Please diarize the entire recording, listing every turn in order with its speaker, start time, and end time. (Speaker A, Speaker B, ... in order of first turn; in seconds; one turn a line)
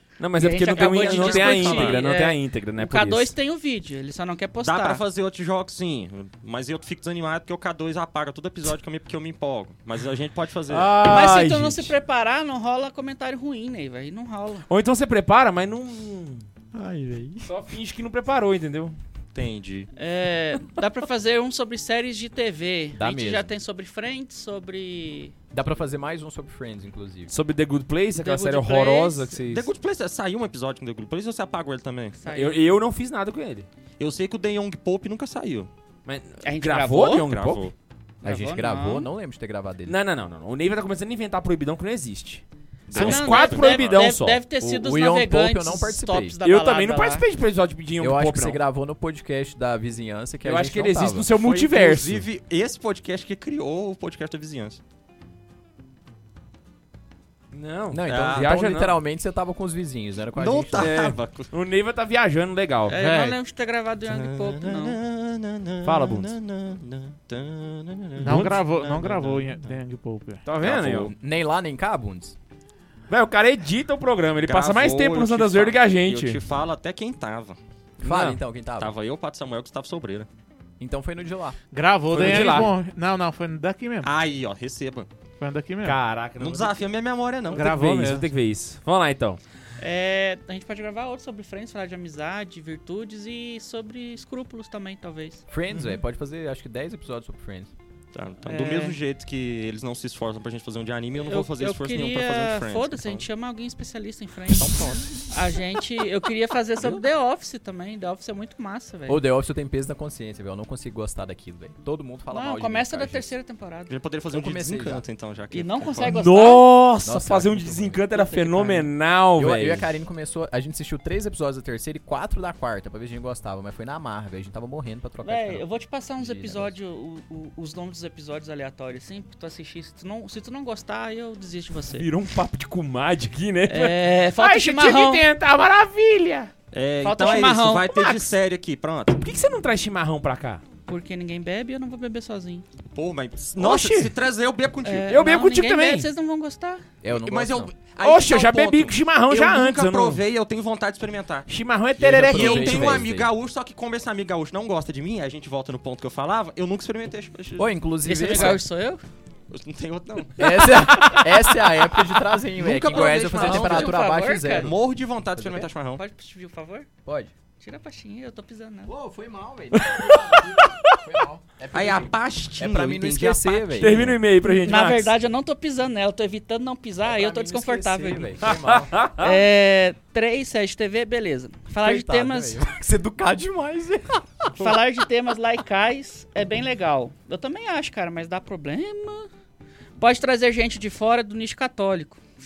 Speaker A: 0.2-3.3
Speaker B: 0.3-5.0
Speaker C: 0.7-2.0
Speaker C: 4.6-10.9
Speaker A: 10.7-11.9
Speaker B: 11.0-14.7
Speaker A: 14.7-16.4
Speaker D: 16.7-17.5
Speaker A: 17.4-18.9
Speaker C: 19.3-19.9
Speaker B: 19.9-25.3
Speaker D: 22.9-23.5
Speaker D: 25.5-27.3
Speaker A: 27.3-29.7
Speaker B: 28.1-29.3
Speaker C: 29.5-32.2
Speaker B: 32.2-32.6
Speaker A: 32.3-33.7
Speaker C: 34.0-35.7
Speaker A: 36.0-37.6
Speaker B: 36.4-37.3
Speaker C: 37.0-37.7
Speaker B: 38.2-39.1
Speaker D: 38.2-40.0
Speaker A: 39.9-44.4
Speaker C: 42.9-44.0
Speaker B: 42.9-47.2
Speaker D: 44.6-46.4
Speaker A: 46.4-48.6
Speaker D: 48.0-51.3
Speaker A: 50.4-52.3
Speaker C: 51.4-54.8
Speaker A: 57.5-59.0
Speaker D: 57.9-61.0
Speaker C: 58.1-58.5
Speaker C: 60.3-61.5
Speaker A: 60.8-63.0
Speaker B: 62.9-65.0
Speaker E: 62.9-63.4
Speaker C: 64.1-69.7
Speaker A: 65.8-66.3
Speaker E: 68.2-70.4
Speaker A: 68.2-68.6
Speaker A: 70.5-71.1
Speaker C: 70.6-71.1
Speaker D: 70.8-72.3
Speaker A: 73.1-76.4
Speaker C: 74.4-77.6
Speaker D: 78.0-78.9
Speaker A: 78.0-78.4
Speaker C: 78.8-80.3
Speaker D: 80.8-81.6
Speaker E: 81.7-84.1
Speaker A: 82.1-82.7
Speaker C: 84.0-85.1
Speaker E: 85.4-86.0
Speaker A: 85.8-86.9
Speaker C: 86.4-87.8
Speaker E: 87.5-88.3
Speaker A: 87.5-89.4
Speaker B: 89.8-95.4
Speaker D: 95.5-97.7
Speaker C: 98.1-103.3
Speaker B: 98.4-99.0
Speaker B: 101.2-109.2
Speaker C: 104.5-105.3
Speaker D: 109.1-113.3
Speaker B: 112.3-113.9
Speaker C: 113.9-116.2
Speaker D: 114.3-115.0
Speaker B: 115.5-116.7
Speaker A: 116.0-119.9
Speaker D: 117.0-118.0
Speaker B: 118.1-118.9
Speaker D: 119.3-125.6
Speaker B: 125.2-132.1
Speaker D: 126.2-126.7
Speaker A: 131.9-136.5
Speaker B: 133.7-135.2
Speaker C: 136.7-139.2
Speaker B: 137.0-138.0
Speaker A: 137.9-138.3
Speaker A: 139.2-140.6
Speaker B: 140.8-142.6
Speaker C: 142.9-145.1
Speaker A: 143.6-144.1
Speaker B: 144.8-146.8
Speaker A: 145.1-146.1
Speaker D: 147.0-147.7
Speaker C: 147.1-151.5
Speaker A: 148.0-150.2
Speaker A: 151.5-153.1
Speaker D: 152.0-153.3
Speaker C: 152.1-157.7
Speaker D: 157.6-158.6
Speaker B: 158.0-159.0
Speaker C: 158.3-158.6
Speaker C: 159.5-160.9
Speaker D: 160.4-164.8
Speaker A: 160.7-161.4
Speaker C: 162.5-166.0
Speaker B: 163.1-164.7
Speaker D: 165.3-165.7
Speaker B: 165.9-166.9
Speaker D: 167.0-167.3
Speaker B: 167.6-168.9
Speaker D: 168.8-174.2
Speaker A: 169.7-171.1
Speaker C: 171.7-174.1
Speaker A: 173.8-175.1
Speaker B: 174.5-178.5
Speaker D: 177.0-179.0
Speaker A: 178.4-179.4
Speaker B: 179.2-182.6
Speaker D: 181.8-184.8
Speaker B: 184.5-189.3
Speaker B: 190.0-192.2